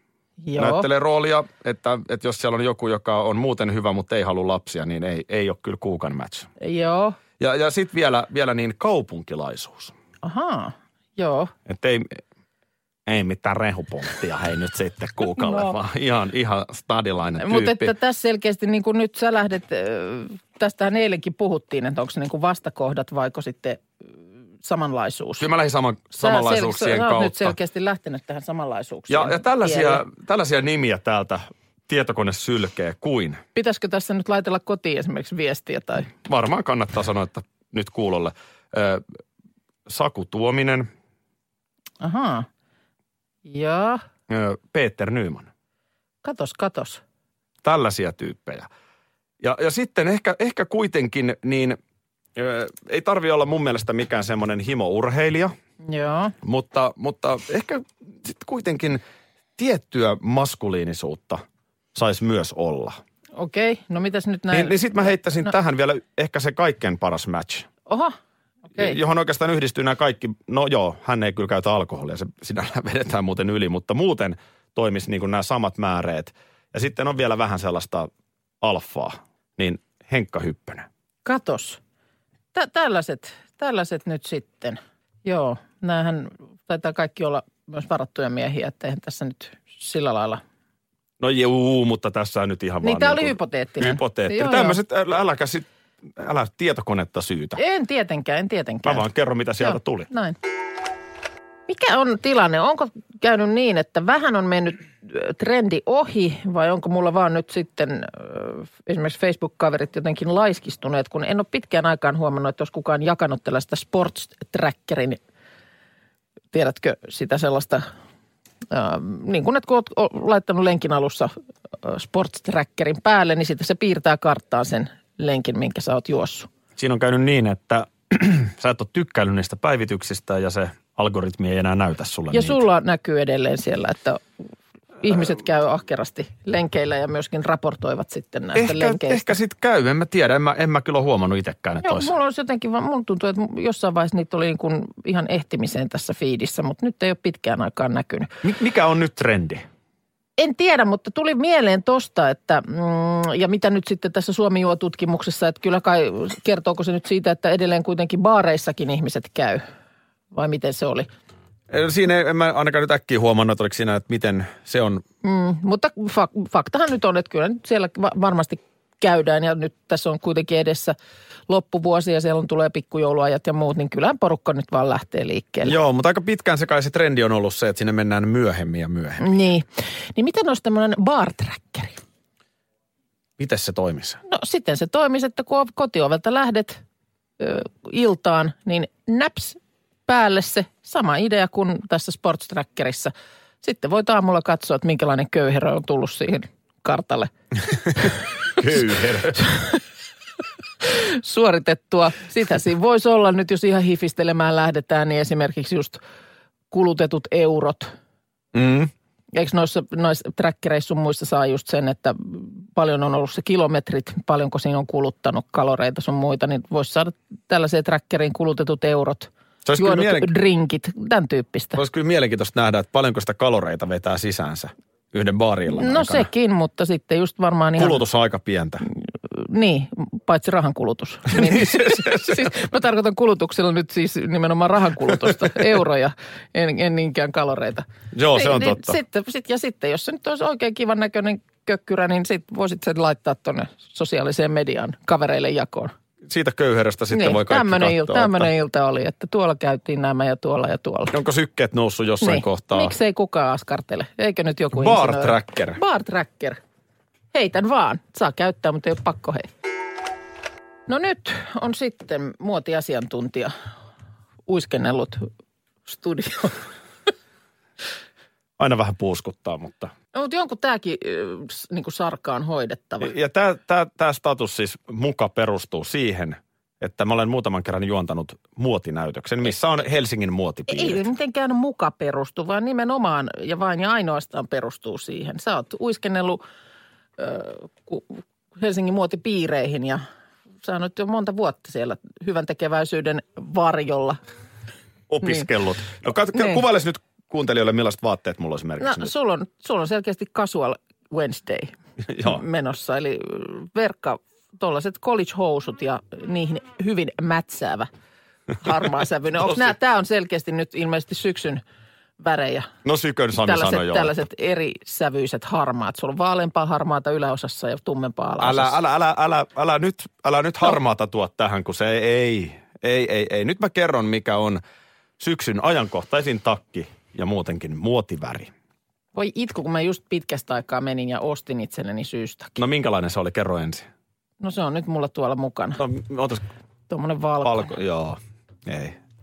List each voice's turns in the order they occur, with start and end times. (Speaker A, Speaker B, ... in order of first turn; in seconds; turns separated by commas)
Speaker A: 0.4-0.9, Speaker B: 0.6-6.5, Speaker A: 6.6-7.2, Speaker B: 7.4-9.9, Speaker A: 10.2-11.5, Speaker B: 11.7-12.1, Speaker B: 13.1-17.9, Speaker A: 15.4-15.7, Speaker A: 17.4-23.9, Speaker A: 24.6-25.5, Speaker B: 25.4-27.6, Speaker A: 26.2-30.0, Speaker B: 29.1-33.4, Speaker A: 33.5-36.1, Speaker B: 36.2-39.0, Speaker B: 39.9-40.9, Speaker A: 42.0-42.5, Speaker A: 43.4-44.0, Speaker B: 44.3-45.5, Speaker A: 46.2-47.0, Speaker B: 47.6-48.7, Speaker B: 49.4-51.8, Speaker B: 52.4-55.5, Speaker A: 55.9-56.4, Speaker B: 56.4-59.0, Speaker B: 59.6-61.4, Speaker B: 61.9-63.0, Speaker A: 63.4-65.3, Speaker B: 64.5-67.7, Speaker A: 67.9-68.2, Speaker B: 68.8-78.1, Speaker B: 78.6-80.9, Speaker A: 81.2-81.8, Speaker A: 82.5-90.4, Speaker B: 91.2-95.6, Speaker A: 92.8-94.8, Speaker B: 96.2-97.6, Speaker A: 97.6-99.0, Speaker B: 98.8-100.1, Speaker A: 99.6-100.4, Speaker A: 101.7-115.2, Speaker A: 116.5-117.8, Speaker A: 118.7-121.3, Speaker A: 121.8-126.5, Speaker B: 126.8-132.6, Speaker A: 132.3-134.2, Speaker A: 135.0-139.3, Speaker B: 138.6-142.1, Speaker A: 141.8-148.3, Speaker B: 148.4-149.6, Speaker A: 150.4-159.6, Speaker A: 160.3-161.1, Speaker B: 161.7-165.0, Speaker A: 165.2-170.9, Speaker A: 171.5-175.7, Speaker B: 175.6-179.2, Speaker A: 179.2-182.0, Speaker B: 183.4-184.2, Speaker A: 184.3-186.8, Speaker A: 187.4-197.3, Speaker B: 198.5-199.5, Speaker A: 200.8-206.0, Speaker A: 206.7-207.9, Speaker B: 208.5-208.9, Speaker A: 209.3-221.8, Speaker B: 219.6-220.3, Speaker B: 221.8-226.3, Speaker A: 225.7-228.0, Speaker B: 227.8-228.8, Speaker A: 228.9-245.9, Speaker B: 231.3-232.5, Speaker B: 238.1-239.0, Speaker B: 246.3-248.5, Speaker A: 247.1-251.1, Speaker B: 251.1-252.9, Speaker A: 252.2-256.6, Speaker B: 254.7-255.8, Speaker A: 257.3-259.5, Speaker A: 260.9-263.5, Speaker A: 264.5-265.2, Speaker A: 265.9-266.6, Speaker B: 268.6-269.9, Speaker A: 270.1-273.1, Speaker B: 273.0-281.0, Speaker A: 280.7-286.4, Speaker A: 287.2-290.0, Speaker A: 290.6-294.2, Speaker B: 295.1-299.1, Speaker A: 298.8-307.9, Speaker B: 302.1-302.4, Speaker A: 308.6-311.6, Speaker A: 312.2-312.7, Speaker B: 312.8-314.1, Speaker A: 313.4-318.8, Speaker B: 318.4-324.6, Speaker B: 325.2-328.5, Speaker A: 329.1-332.6, Speaker B: 332.6-333.9, Speaker A: 334.4-335.8, Speaker B: 335.8-336.4, Speaker A: 336.9-337.8, Speaker B: 337.4-339.0